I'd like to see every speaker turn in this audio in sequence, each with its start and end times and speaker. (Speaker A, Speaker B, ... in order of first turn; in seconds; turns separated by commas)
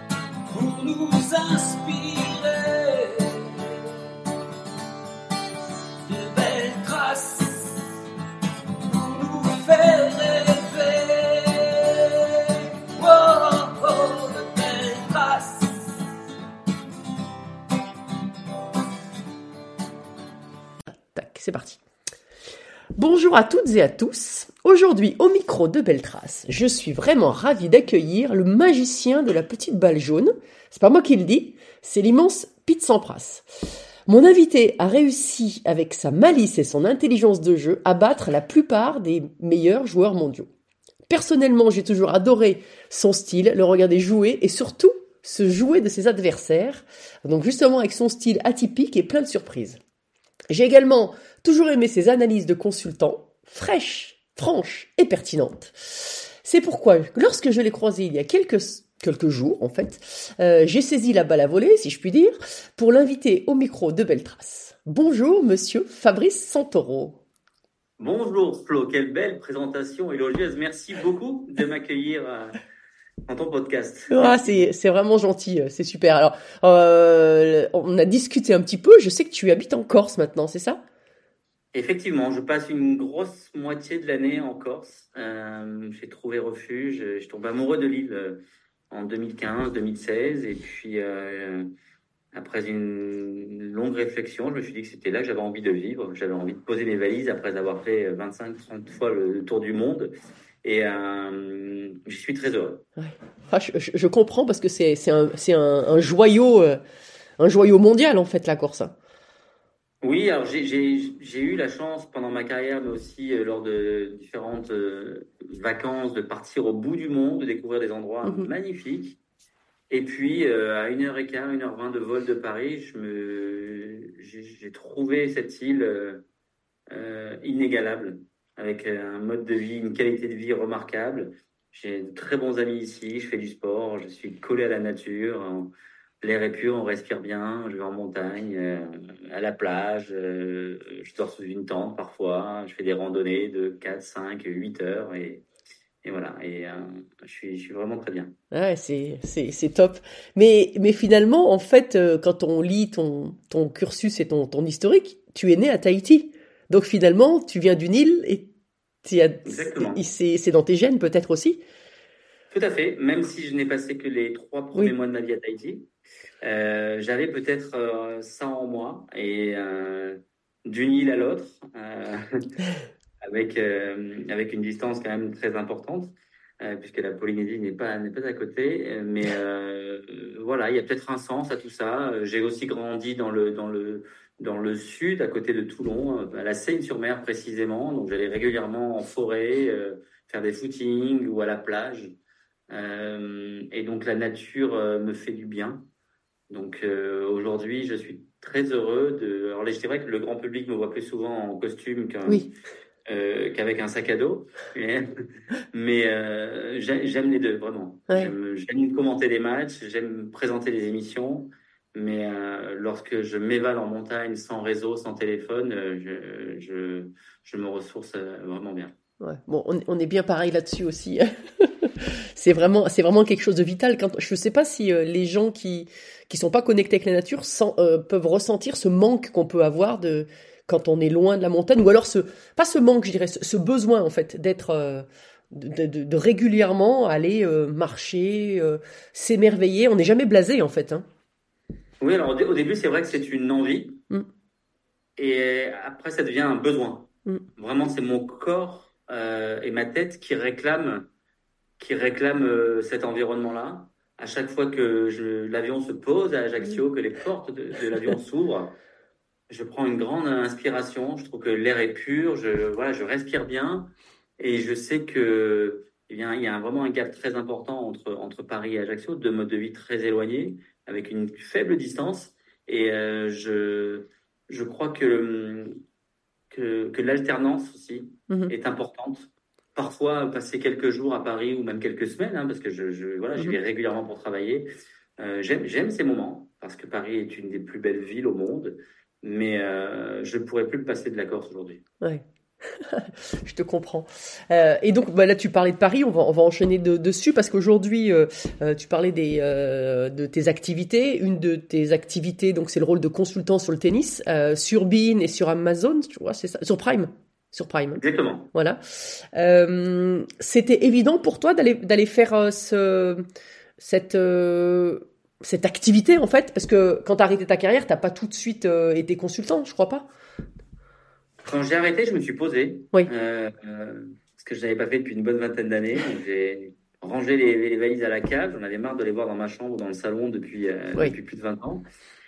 Speaker A: 0.5-3.6, Speaker A: 6.1-7.8, Speaker A: 8.8-15.8, Speaker B: 21.0-21.8, Speaker B: 22.9-33.5, Speaker B: 34.0-40.5, Speaker B: 41.1-49.8, Speaker B: 50.5-67.2, Speaker C: 68.0-72.6, Speaker C: 73.3-74.6, Speaker B: 74.1-80.8, Speaker C: 81.7-91.7, Speaker C: 92.3-102.8, Speaker B: 103.0-106.8, Speaker B: 107.4-108.9, Speaker C: 110.0-119.2, Speaker B: 118.2-118.5, Speaker C: 119.9-126.2, Speaker C: 126.9-145.4, Speaker C: 146.0-148.3, Speaker B: 148.5-158.5, Speaker B: 159.0-161.6, Speaker C: 159.4-160.0, Speaker C: 162.5-165.9, Speaker C: 166.4-172.2, Speaker C: 173.2-192.2, Speaker C: 192.7-195.9, Speaker C: 196.5-202.5, Speaker C: 203.1-205.1, Speaker C: 205.7-218.9, Speaker B: 219.2-241.1, Speaker C: 242.0-244.0, Speaker C: 245.2-251.1, Speaker C: 251.8-258.8, Speaker C: 259.5-275.8, Speaker C: 276.5-284.7, Speaker C: 285.2-291.8, Speaker B: 292.0-308.0, Speaker C: 308.0-308.5, Speaker B: 308.5-313.2, Speaker B: 313.8-320.1, Speaker C: 321.4-331.8